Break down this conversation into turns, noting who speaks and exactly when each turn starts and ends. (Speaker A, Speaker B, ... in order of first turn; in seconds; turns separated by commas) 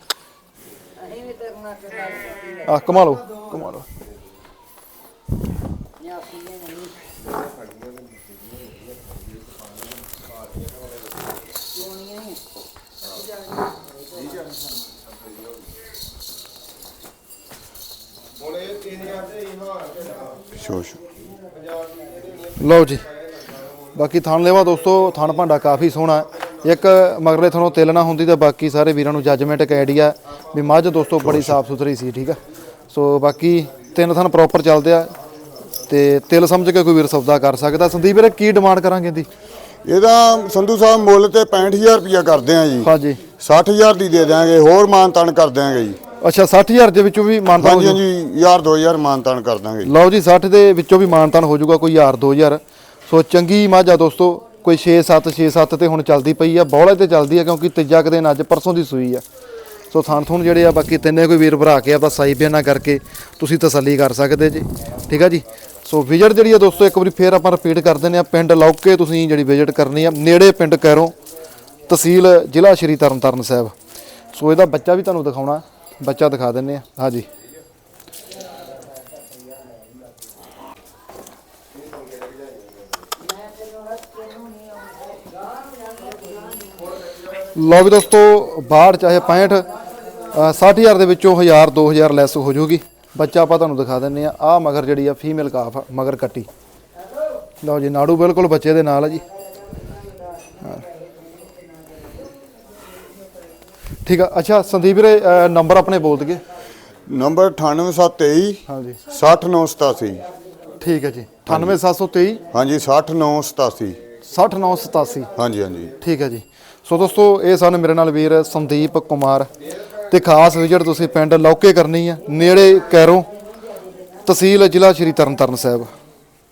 Speaker A: 1.1-2.6, Speaker B: 2.6-3.9, Speaker A: 6.4-6.8, Speaker C: 20.5-21.0, Speaker B: 22.6-23.0, Speaker B: 23.9-32.4, Speaker C: 31.2-31.6, Speaker B: 32.9-35.1, Speaker B: 35.9-39.3, Speaker C: 39.8-42.9, Speaker B: 42.8-43.2, Speaker C: 43.4-46.0, Speaker B: 46.2-48.0, Speaker C: 47.6-49.9, Speaker B: 49.8-59.2, Speaker B: 59.9-71.1, Speaker B: 71.9-73.7, Speaker B: 74.3-77.3, Speaker A: 84.0-84.9, Speaker B: 87.5-89.7, Speaker B: 90.3-96.5, Speaker B: 97.6-99.2, Speaker B: 104.0-106.4, Speaker C: 107.1-110.3, Speaker B: 108.7-109.0, Speaker B: 110.8-112.4, Speaker C: 111.5-111.8, Speaker C: 112.5-114.0, Speaker B: 114.2-115.3, Speaker C: 115.4-115.9, Speaker B: 116.0-119.5, Speaker B: 120.1-123.3, Speaker B: 124.3-125.9